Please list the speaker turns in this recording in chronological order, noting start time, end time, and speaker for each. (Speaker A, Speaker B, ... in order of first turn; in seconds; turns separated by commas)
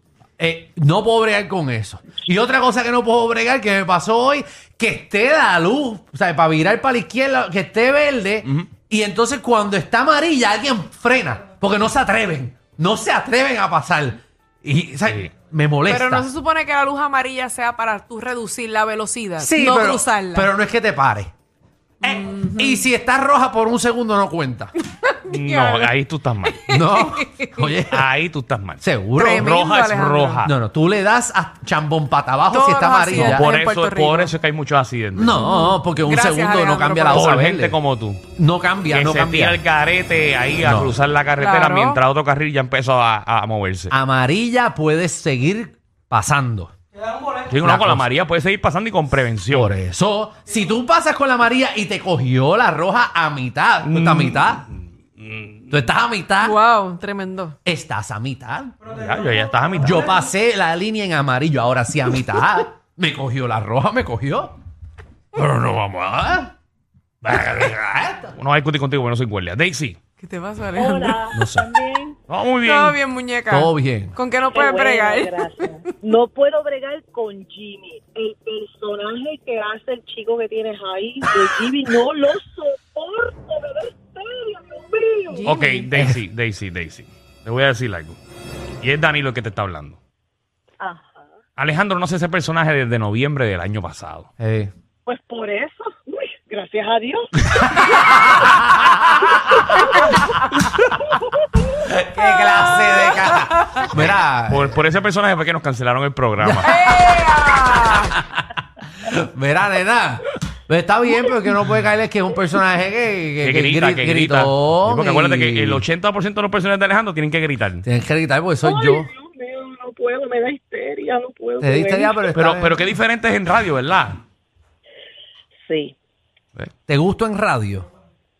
Speaker A: 0.4-16.3, Speaker B: 15.9-20.5, Speaker A: 19.4-21.3, Speaker A: 22.0-24.7, Speaker B: 22.0-22.8, Speaker B: 24.9-25.9, Speaker C: 25.3-26.6, Speaker B: 26.5-27.8, Speaker A: 26.7-28.1, Speaker C: 27.9-28.8, Speaker A: 28.8-29.6, Speaker B: 29.1-30.5, Speaker C: 29.4-30.5, Speaker A: 30.4-33.4, Speaker B: 32.5-34.3, Speaker C: 33.1-35.4, Speaker A: 35.1-37.8, Speaker B: 35.4-37.4, Speaker C: 37.1-38.2, Speaker A: 38.3-39.6, Speaker C: 38.9-43.9, Speaker A: 40.6-40.9, Speaker B: 41.4-42.0, Speaker A: 43.9-46.7, Speaker C: 47.2-49.7, Speaker A: 47.6-48.0, Speaker A: 49.5-54.6, Speaker C: 53.8-55.8, Speaker A: 55.7-56.6, Speaker B: 56.4-57.5, Speaker A: 57.6-58.7, Speaker C: 58.9-60.1, Speaker A: 59.8-64.5, Speaker A: 65.3-66.5, Speaker A: 67.2-68.3, Speaker C: 67.2-67.7, Speaker C: 68.3-70.0, Speaker B: 70.2-71.2, Speaker D: 70.7-72.2, Speaker A: 71.3-71.7, Speaker C: 72.3-73.0, Speaker B: 72.6-75.8, Speaker A: 73.5-74.1, Speaker D: 74.6-85.5, Speaker B: 85.3-85.9, Speaker C: 85.4-88.2, Speaker A: 86.0-86.2, Speaker C: 88.8-90.0, Speaker D: 90.8-91.2, Speaker C: 91.6-94.3, Speaker A: 94.4-94.7, Speaker D: 95.0-98.5, Speaker A: 99.1-99.6, Speaker A: 102.0-104.8, Speaker C: 103.9-106.7, Speaker B: 106.6-108.1, Speaker A: 109.0-115.8, Speaker C: 113.4-117.8, Speaker A: 117.8-119.1, Speaker D: 118.6-122.2, Speaker A: 121.6-122.8, Speaker C: 122.3-124.2, Speaker D: 125.6-125.9, Speaker A: 126.9-127.9